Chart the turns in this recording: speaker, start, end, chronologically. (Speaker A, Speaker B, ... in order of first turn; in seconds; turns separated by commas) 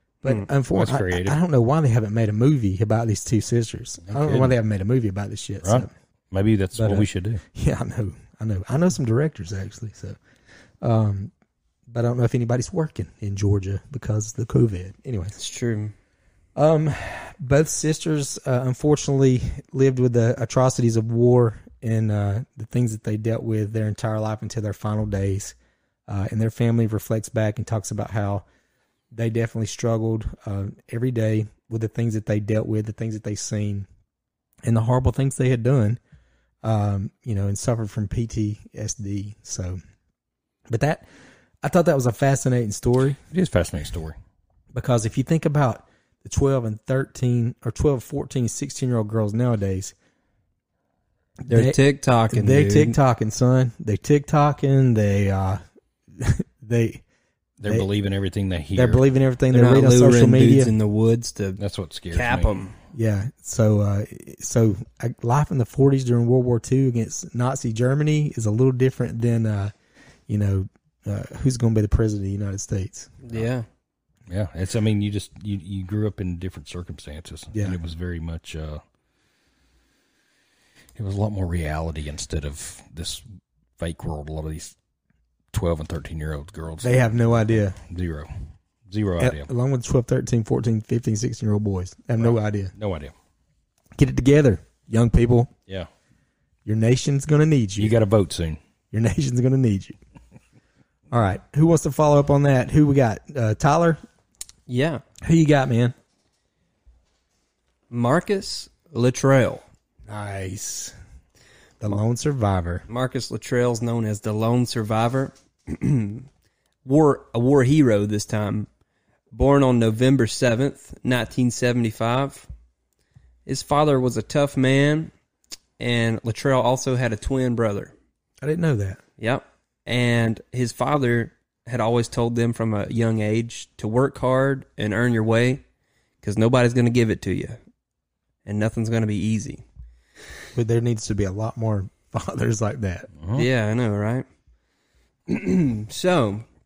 Speaker A: 0.2-5.9, Speaker B: 0.7-1.4, Speaker B: 4.1-4.5, Speaker B: 5.6-7.4, Speaker A: 6.7-10.2, Speaker A: 10.8-11.3, Speaker A: 11.9-15.3, Speaker C: 15.3-15.9, Speaker A: 16.6-25.5, Speaker A: 26.1-28.4, Speaker A: 29.1-33.9, Speaker A: 34.6-36.0, Speaker A: 36.6-39.8, Speaker A: 40.7-41.0, Speaker A: 41.6-43.2, Speaker B: 43.3-44.1, Speaker A: 44.7-49.9, Speaker A: 51.5-51.8, Speaker C: 51.5-53.0, Speaker A: 52.3-55.6, Speaker A: 56.2-57.0, Speaker B: 57.6-59.0, Speaker A: 58.7-60.7, Speaker C: 59.5-61.6, Speaker B: 61.6-62.7, Speaker C: 62.1-62.7, Speaker A: 62.9-69.7, Speaker A: 70.3-73.2, Speaker C: 73.2-73.7, Speaker B: 74.3-78.8, Speaker B: 81.0-83.2, Speaker B: 83.8-84.7, Speaker B: 85.5-88.3, Speaker A: 86.8-87.8, Speaker B: 88.9-89.5, Speaker A: 89.2-92.7, Speaker B: 92.2-93.1, Speaker A: 94.0-95.5, Speaker A: 96.6-97.9, Speaker B: 97.8-98.6, Speaker A: 98.9-100.0, Speaker A: 101.1-104.0, Speaker C: 104.7-105.0, Speaker A: 105.2-105.9, Speaker C: 107.9-109.6, Speaker A: 110.1-110.9, Speaker A: 111.8-112.8, Speaker C: 112.9-116.3, Speaker C: 116.8-118.7, Speaker C: 119.3-122.5, Speaker C: 123.5-125.1, Speaker C: 125.8-127.9, Speaker A: 128.4-129.0, Speaker C: 129.2-135.6, Speaker C: 136.2-137.6, Speaker C: 138.4-139.6, Speaker A: 140.5-143.1, Speaker B: 143.2-143.4, Speaker C: 143.3-144.2, Speaker C: 145.3-146.4